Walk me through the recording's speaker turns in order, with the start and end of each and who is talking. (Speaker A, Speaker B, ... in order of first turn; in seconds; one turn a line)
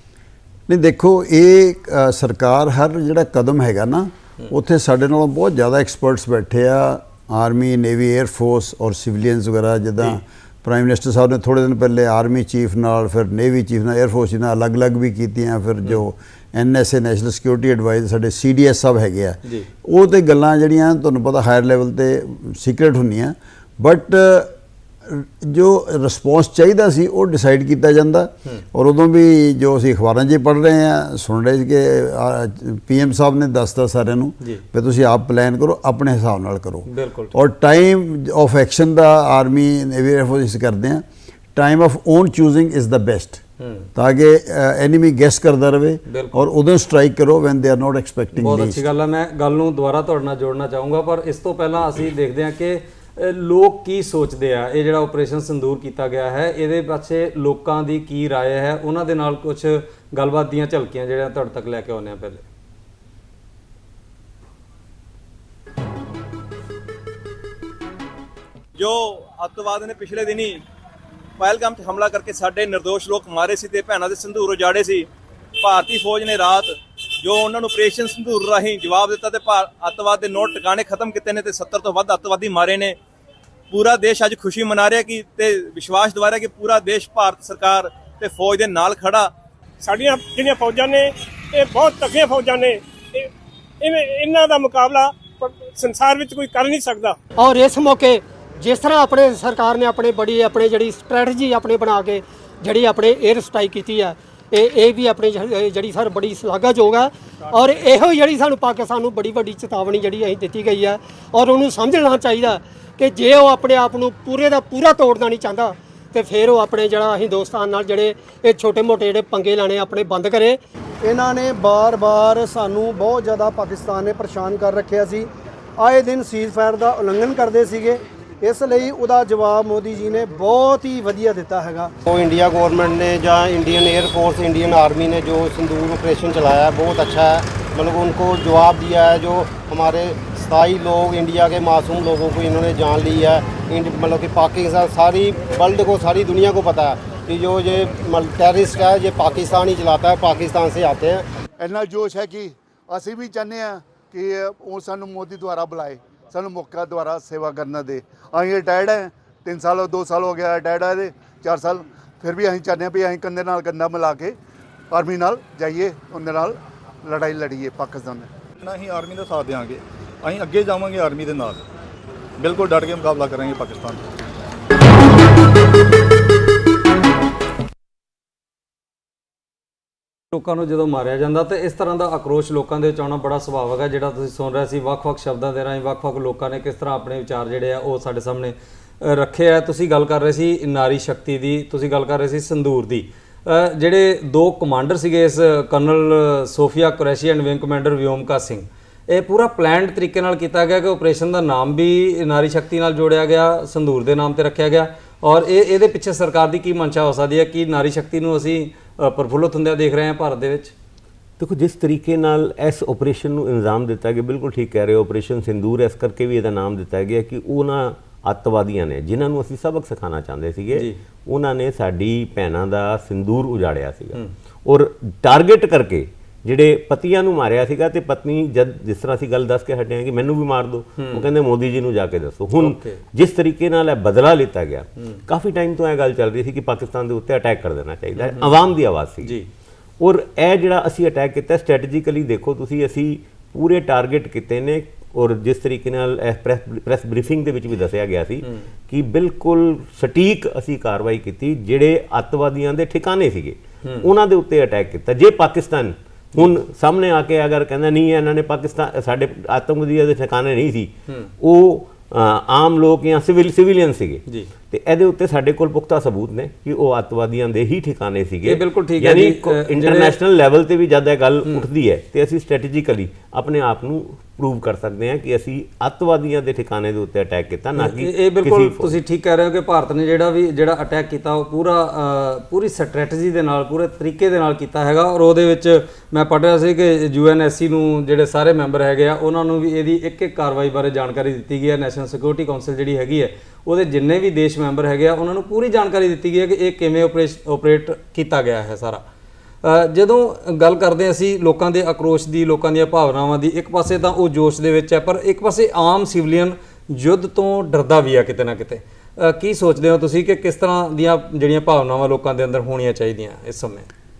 Speaker A: 0.7-24.5
Speaker A: 25.1-41.0
Speaker B: 36.9-37.3
Speaker A: 41.5-43.4
Speaker B: 43.6-43.9
Speaker A: 43.9-48.8
Speaker B: 46.1-46.4
Speaker B: 48.4-62.4
Speaker C: 68.8-70.6
Speaker C: 71.4-75.0
Speaker C: 75.6-76.7
Speaker C: 77.2-83.0
Speaker C: 83.7-89.3
Speaker D: 89.8-93.3
Speaker D: 93.8-97.2
Speaker E: 97.4-120.6
Speaker F: 121.0-131.9
Speaker G: 132.0-151.2
Speaker H: 151.6-164.3
Speaker H: 164.9-168.3
Speaker I: 168.6-171.6
Speaker I: 172.4-174.0
Speaker B: 180.3-210.7
Speaker J: 211.4-239.4
Speaker B: 231.0-231.2
Speaker B: 232.6-233.0
Speaker B: 238.2-238.5
Speaker J: 240.0-278.9
Speaker B: 268.4-270.1
Speaker B: 277.8-299.0
Speaker B: 299.6-313.9